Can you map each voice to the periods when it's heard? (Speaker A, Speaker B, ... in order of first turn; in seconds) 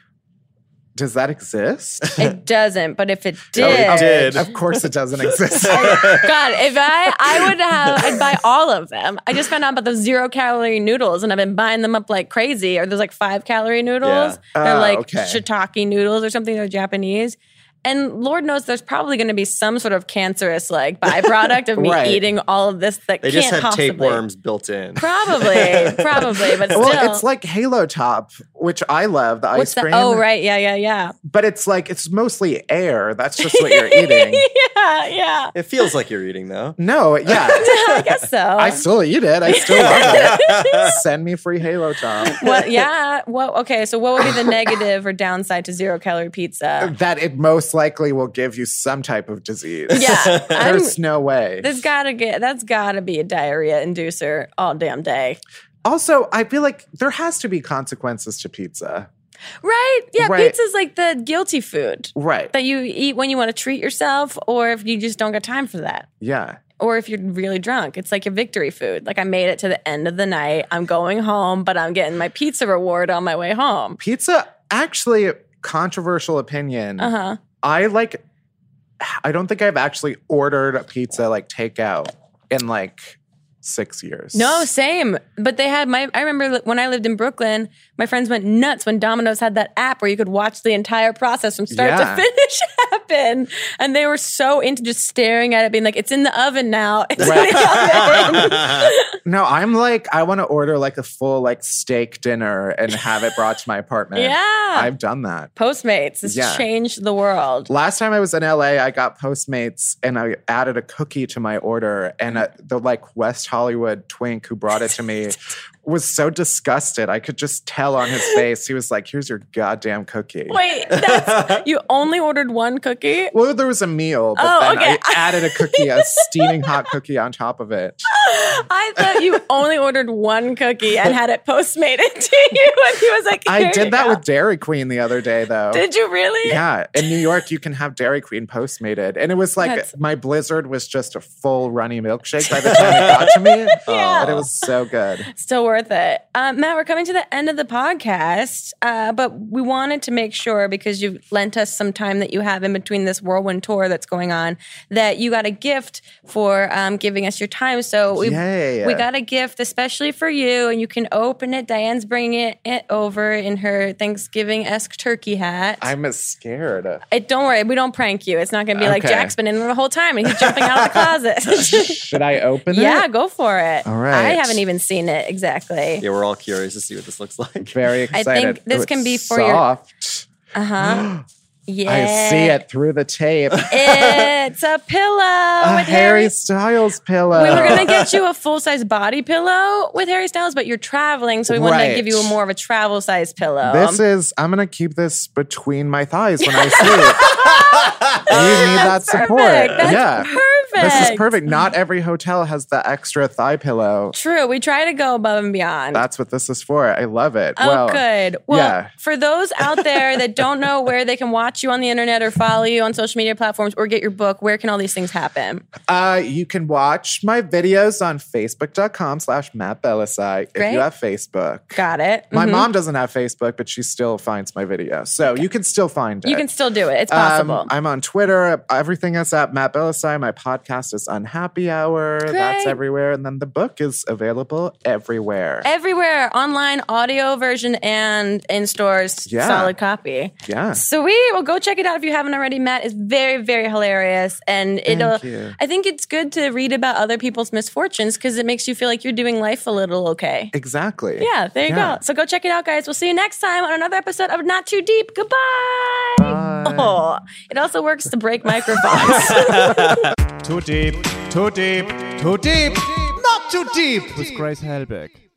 Speaker A: 1.0-2.2, 3.6-6.3, 14.6-15.4, 21.8-22.2, 26.8-30.2, 31.3-34.5, 36.8-37.7, 38.6-42.4, 46.8-51.8, 55.9-59.1, 60.2-60.6, 62.2-62.5, 66.2-66.6, 74.0-77.1, 77.6-78.2, 79.0-84.7, 91.7-92.2, 97.2-98.6, 99.2-105.5, 106.2-106.6, 107.7-120.6, 123.3-128.1, 133.5-135.8, 136.4-145.3, 158.1-159.1, 165.8-167.0, 168.8-169.3, 170.4-170.8, 171.6-173.1, 173.9-174.6, 177.7-180.3, 180.8-181.2, 181.9-184.3, 185.6-188.0, 191.5-192.3, 193.6-197.6, 198.2-204.2, 205.9-208.9, 215.9-221.8, 222.3-226.5, 227.1-235.7, 239.3-239.7, 240.4-240.8, 244.9-245.6, 250.5-252.0, 256.2-257.0
Speaker B: 2.2-4.5, 5.6-24.2, 25.0-27.2, 29.6-31.1, 33.4-35.5, 37.5-38.8, 39.5-41.0, 42.3-46.9, 49.9-51.0, 51.6-55.4, 59.6-66.1, 66.8-74.0, 77.0-77.4, 84.3-99.1, 104.2-104.9, 105.6-107.7, 120.5-123.3, 124.4-126.7, 128.1-134.2, 135.7-137.2, 139.6-139.9, 143.7-144.5, 145.3-165.9, 167.1-172.2, 172.7-176.0, 178.1-179.6, 180.5-181.1, 181.7-182.6, 183.7-186.3, 187.3-194.0, 196.4-197.5, 198.3-201.3, 204.1-206.0, 207.6-215.7, 220.6-220.9, 221.8-222.7, 226.2-227.7, 232.3-232.8, 235.6-250.5, 251.2-260.0
Speaker C: 3.6-6.3, 14.0-14.4, 23.2-27.0, 35.5-38.0, 39.7-40.9, 50.0-50.6, 97.2-98.9, 120.9-121.6, 142.7-143.3, 143.9-144.5, 176.0-177.7, 197.4-198.4
Speaker D: 259.3-259.7, 260.4-265.2